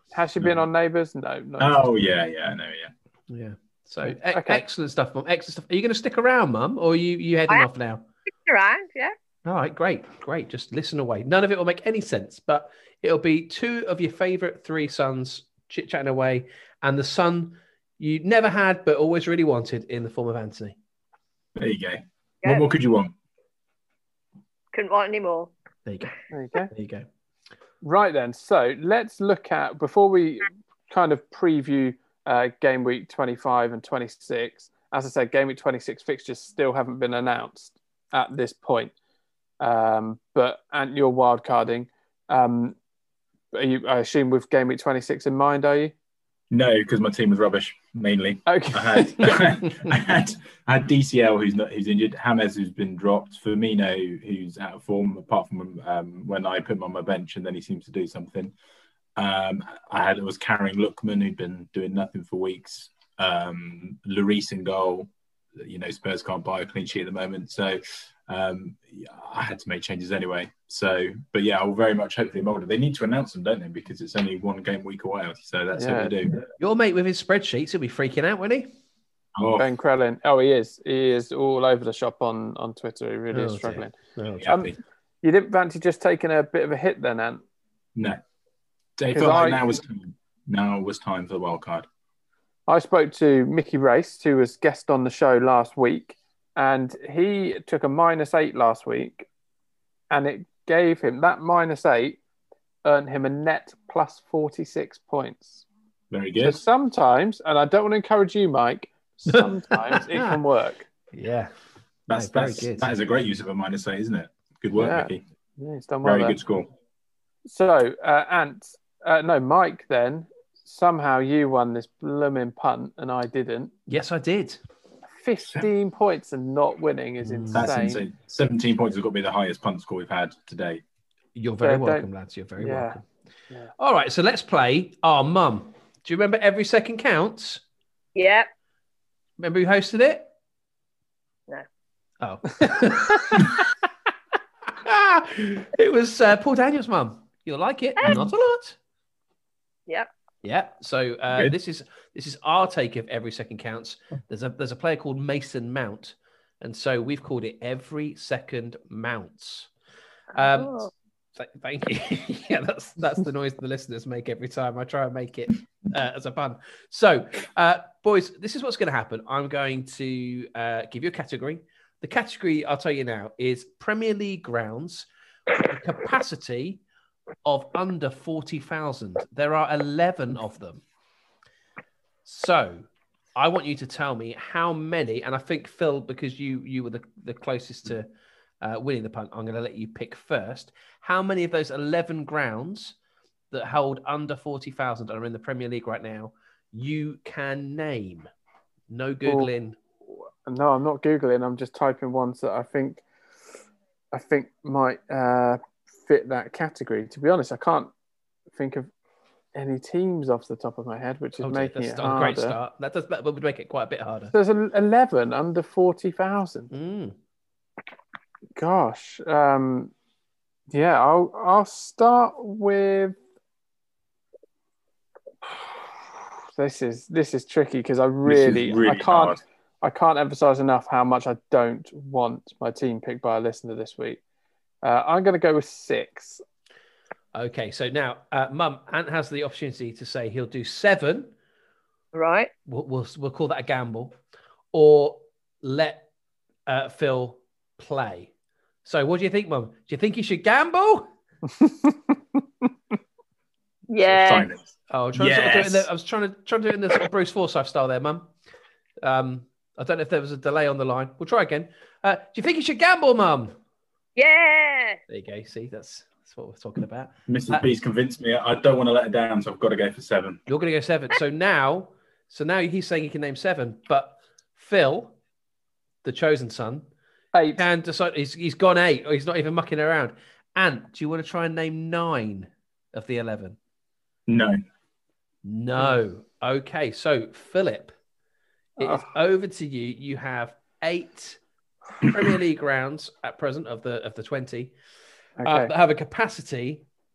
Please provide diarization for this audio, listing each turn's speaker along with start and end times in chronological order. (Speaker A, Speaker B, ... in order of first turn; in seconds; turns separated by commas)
Speaker A: 0.1-1.9, Speaker B: 1.6-2.9, Speaker C: 3.3-8.0, Speaker A: 4.0-4.6, Speaker D: 8.4-9.2, Speaker C: 9.4-20.8, Speaker B: 21.6-23.1, Speaker D: 24.7-25.5, Speaker C: 25.9-26.1, Speaker A: 26.3-26.7, Speaker C: 26.7-27.1, Speaker A: 27.8-38.9, Speaker A: 39.6-42.8, Speaker A: 43.5-45.9, Speaker B: 46.5-58.5, Speaker A: 48.5-49.5, Speaker B: 59.2-76.4, Speaker A: 75.7-76.1, Speaker C: 76.6-78.7, Speaker B: 79.4-79.7, Speaker A: 79.6-84.0, Speaker C: 83.3-84.5, Speaker B: 84.4-84.8, Speaker A: 84.5-87.4, Speaker B: 89.0-91.9, Speaker A: 89.1-89.7, Speaker A: 92.7-99.3, Speaker A: 100.1-102.2, Speaker A: 102.8-105.7, Speaker B: 106.1-106.6, Speaker A: 106.4-110.9, Speaker C: 109.3-110.4, Speaker C: 111.1-111.5, Speaker B: 112.1-115.2, Speaker C: 112.1-112.9, Speaker A: 114.8-116.4, Speaker B: 116.0-116.7, Speaker A: 117.5-123.7, Speaker C: 123.9-124.6, Speaker A: 125.2-128.0, Speaker C: 127.2-127.7, Speaker B: 127.5-130.8, Speaker C: 131.3-133.0, Speaker A: 131.6-133.0, Speaker C: 133.8-137.6, Speaker D: 138.2-138.5, Speaker C: 139.4-140.3, Speaker C: 142.2-143.6, Speaker C: 144.8-148.8, Speaker D: 148.0-148.2, Speaker C: 150.4-159.7, Speaker D: 160.3-160.9, Speaker C: 160.3-176.8, Speaker C: 177.4-180.8, Speaker C: 182.2-188.1, Speaker C: 188.6-192.9, Speaker C: 193.5-198.3, Speaker C: 198.9-199.8, Speaker A: 200.5-203.0, Speaker A: 204.1-207.9, Speaker A: 208.5-208.9, Speaker A: 209.6-212.6, Speaker C: 211.4-214.3, Speaker A: 214.3-216.7, Speaker C: 216.7-217.2, Speaker A: 218.6-219.9, Speaker A: 220.7-223.2, Speaker A: 226.6-234.2, Speaker B: 228.2-229.4, Speaker A: 234.8-236.4, Speaker C: 237.3-241.3, Speaker D: 242.1-242.5, Speaker C: 242.7-244.2, Speaker C: 244.7-246.1, Speaker C: 246.7-248.3, Speaker C: 248.8-251.1, Speaker A: 251.6-251.9, Speaker D: 253.9-254.5, Speaker B: 254.1-255.9, Speaker C: 254.9-258.3, Speaker C: 259.0-263.6, Speaker D: 264.2-265.0, Speaker C: 265.1-267.6, Speaker B: 267.3-270.4, Speaker C: 270.5-275.1, Speaker C: 276.0-276.9, Speaker A: 277.3-277.6, Speaker C: 277.6-283.6, Speaker B: 284.3-284.6, Speaker C: 285.4-287.9, Speaker C: 288.8-291.4, Speaker A: 288.8-289.1, Speaker C: 292.0-294.7, Speaker A: 295.4-295.7, Speaker C: 295.4-296.9